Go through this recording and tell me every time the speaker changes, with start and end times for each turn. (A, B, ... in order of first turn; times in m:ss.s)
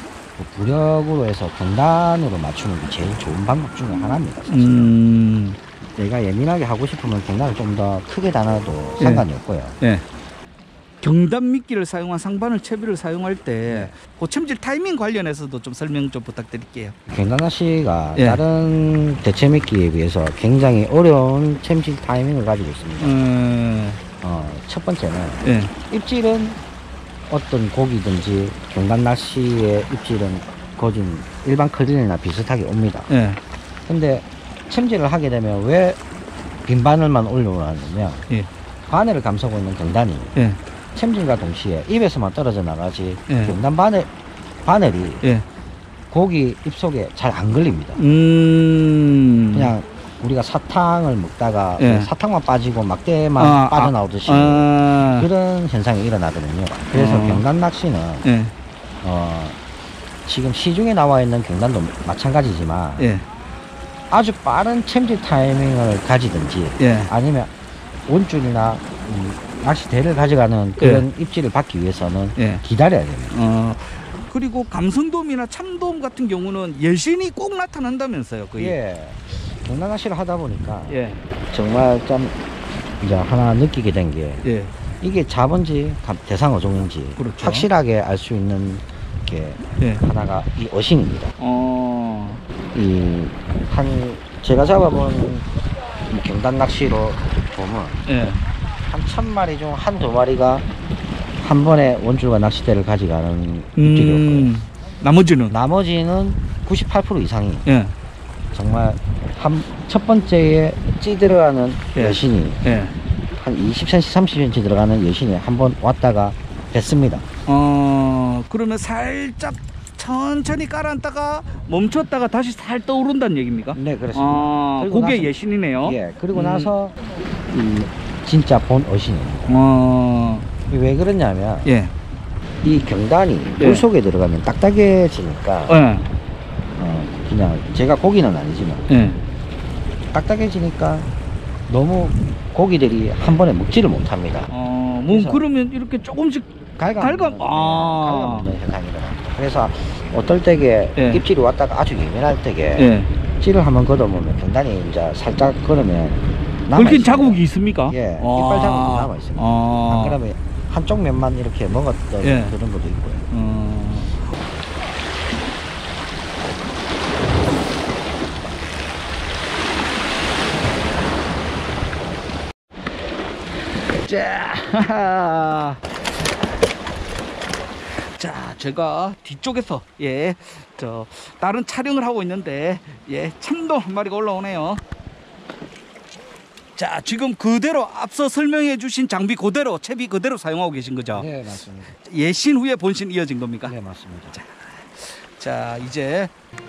0:00.4-0:05.0 A
0:04.5-0:05.6 B
0:06.0-0:09.8 A
0:09.0-0:09.2 B
0:11.0-0:16.9 B
0:13.7-0:13.9 A
0:17.1-0:23.2 A
0:18.2-0:18.4 B
0:23.0-0:24.0 B
0:24.2-0:26.6 A
0:25.4-0:25.7 B
0:27.3-0:33.1 A
0:33.1-0:33.4 B
0:33.9-0:36.0 A
0:36.6-0:38.2 A
0:38.9-0:40.4 A
0:40.9-0:44.1 A
0:43.3-0:43.5 B
0:44.6-0:45.2 A
0:46.1-0:48.0 A
0:48.0-0:49.7 B
0:49.5-0:58.2 A
0:51.8-0:52.1 B
0:53.4-0:55.3 B
0:56.9-0:57.4 B
0:58.2-0:58.5 B
0:59.0-0:59.6 A
1:00.2-1:03.1 A
1:03.0-1:03.2 B
1:04.1-1:07.5 A
1:06.8-1:07.1 B
1:08.1-1:13.4 A
1:10.8-1:11.0 B
1:12.4-1:12.6 B
1:13.3-1:18.8 B
1:18.6-1:22.3 A
1:20.9-1:21.2 B
1:23.0-1:24.4 A
1:24.4-1:24.7 B
1:25.0-1:31.3 A
1:27.2-1:27.7 B
1:31.4-1:32.4 B
1:32.7-1:35.4 A
1:36.1-1:38.0 A
1:38.1-1:38.4 B
1:38.8-1:40.6 A
1:41.4-1:44.5 A
1:43.8-1:45.5 B
1:45.5-1:47.6 A
1:47.6-1:47.9 B
1:48.5-1:52.6 A
1:51.9-1:52.9 B
1:53.4-1:57.2 A
1:57.5-2:06.7 B
2:03.7-2:07.0 A
2:07.5-2:09.6 A
2:09.5-2:10.4 B
2:10.7-2:11.7 A
2:11.6-2:11.9 B
2:12.6-2:15.8 A
2:13.6-2:13.8 B
2:15.7-2:16.1 B
2:16.8-2:18.9 A
2:18.9-2:19.2 B
2:20.1-2:21.1 A
2:21.7-2:24.5 A
2:24.5-2:28.5 B
2:25.1-2:25.4 A
2:26.8-2:43.2 A
2:31.0-2:31.2 B
2:32.8-2:33.1 B
2:36.7-2:40.2 B
2:42.2-2:42.6 B
2:43.3-2:44.2 B
2:53.9-2:56.0 B
2:57.8-3:04.8 B
3:06.8-3:11.3 B
3:11.1-3:11.9 A
3:11.9-3:13.7 B
3:13.6-3:14.4 A
3:14.3-3:16.3 B